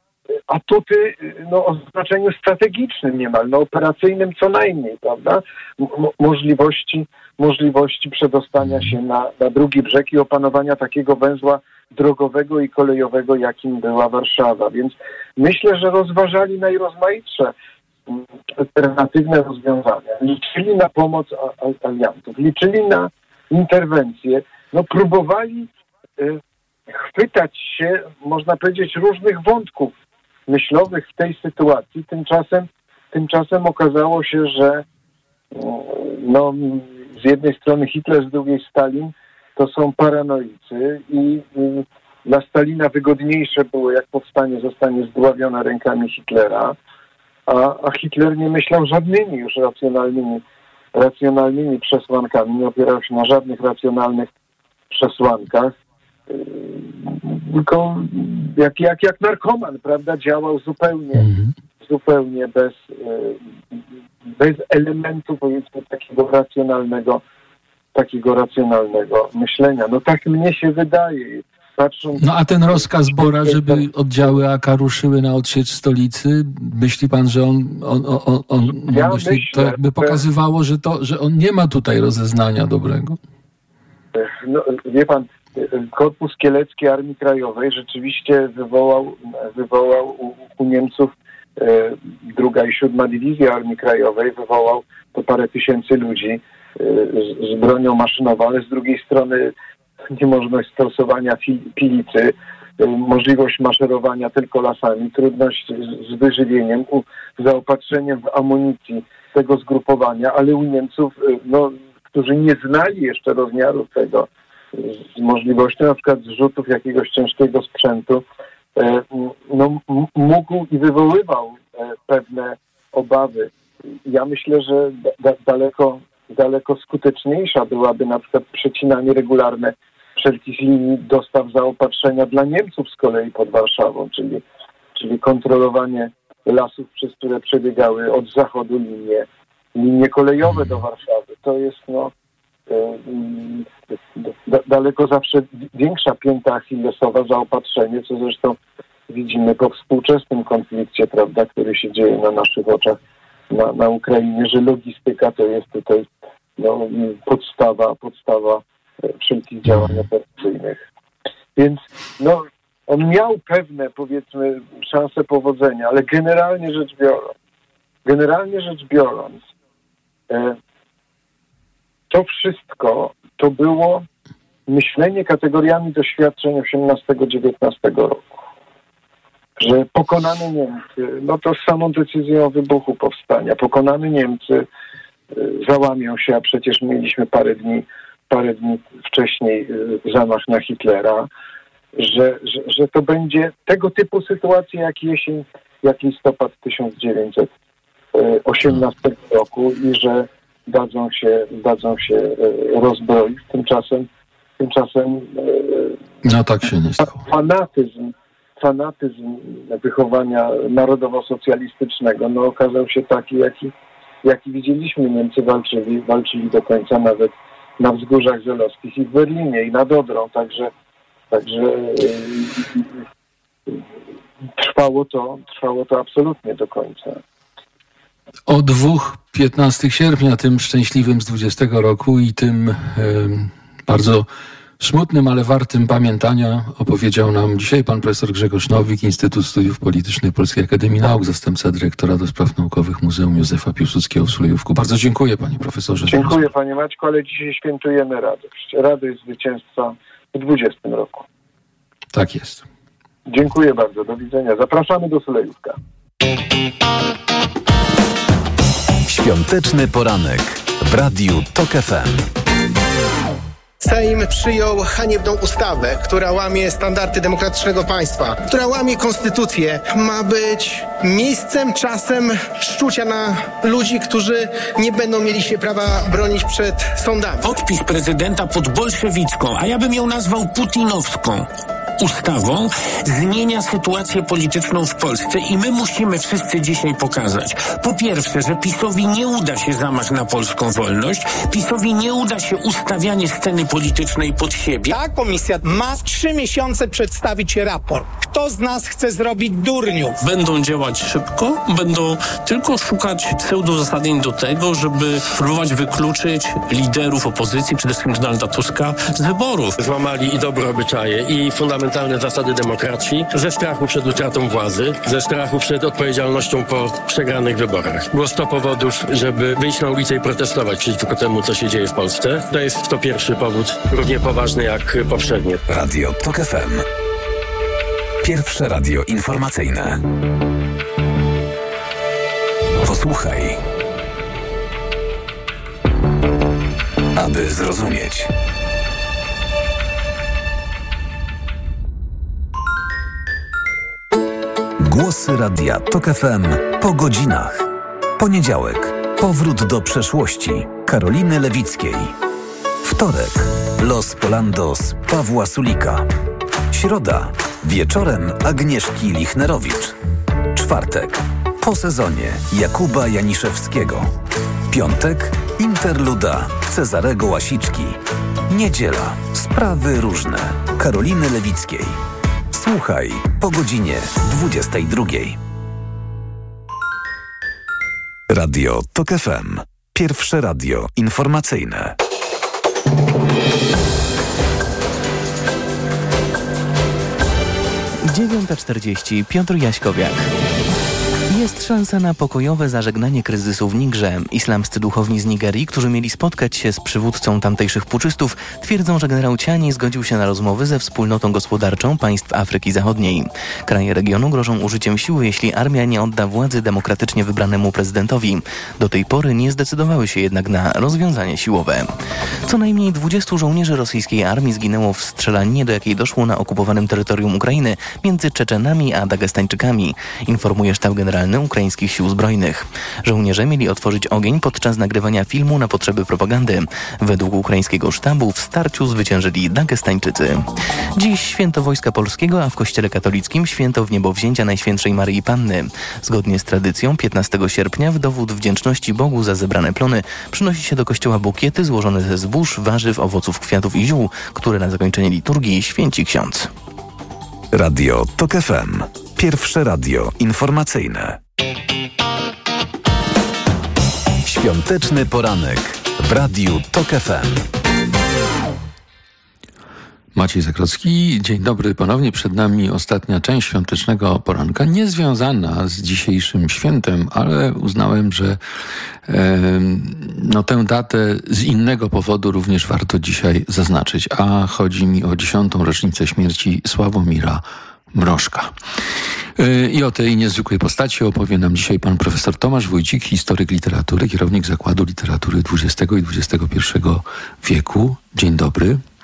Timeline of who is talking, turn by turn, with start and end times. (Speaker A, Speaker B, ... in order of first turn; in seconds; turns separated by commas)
Speaker A: 0.5-17.5, Speaker A: 18.1-26.4, Speaker A: 26.9-29.9, Speaker A: 30.5-34.8, Speaker A: 35.5-46.8, Speaker A: 47.5-50.4, Speaker A: 50.9-54.3, Speaker A: 54.9-55.7, Speaker A: 56.3-61.3, Speaker B: 61.1-61.5, Speaker A: 61.8-63.8, Speaker A: 64.4-67.2, Speaker A: 67.9-73.9, Speaker B: 72.2-83.2, Speaker A: 78.8-80.2, Speaker A: 84.1-99.5, Speaker A: 100.1-118.2, Speaker A: 118.8-123.5, Speaker A: 124.1-134.4, Speaker A: 134.9-142.1, Speaker A: 142.7-148.6, Speaker A: 149.1-153.0, Speaker A: 153.5-160.8, Speaker B: 159.7-160.0, Speaker A: 161.6-167.3, Speaker A: 168.1-169.4, Speaker A: 170.3-170.6, Speaker A: 172.1-174.1, Speaker A: 174.7-178.3, Speaker A: 179.6-184.7, Speaker A: 185.3-191.3, Speaker A: 192.0-197.5, Speaker A: 198.1-204.1, Speaker A: 204.6-206.0, Speaker B: 206.2-207.2, Speaker A: 207.0-213.7, Speaker A: 214.2-220.7, Speaker A: 221.3-223.0, Speaker A: 224.6-227.2, Speaker B: 228.5-234.3, Speaker B: 234.8-246.4, Speaker A: 246.1-251.3, Speaker B: 252.1-252.6, Speaker A: 253.3-255.8, Speaker C: 259.1-262.3, Speaker D: 263.8-277.6, Speaker E: 277.4-281.5, Speaker E: 282.0-295.0, Speaker F: 294.9-300.1, Speaker E: 300.2-309.7, Speaker G: 309.8-325.6, Speaker C: 325.7-326.9, Speaker C: 328.2-330.0, Speaker C: 332.8-333.6, Speaker C: 337.1-338.3, Speaker C: 344.8-352.1, Speaker C: 352.8-356.1, Speaker C: 356.7-360.0, Speaker C: 360.5-364.1, Speaker C: 364.7-372.0, Speaker C: 372.5-375.4, Speaker C: 378.3-382.0, Speaker H: 388.1-390.3, Speaker H: 391.3-411.9, Speaker H: 412.5-430.4, Speaker H: 431.0-446.5, Speaker C: 447.5-451.2, Speaker C: 454.2-457.5, Speaker B: 460.1-468.4, Speaker B: 469.1-477.4, Speaker B: 477.9-478.5, Speaker B: 479.4-488.8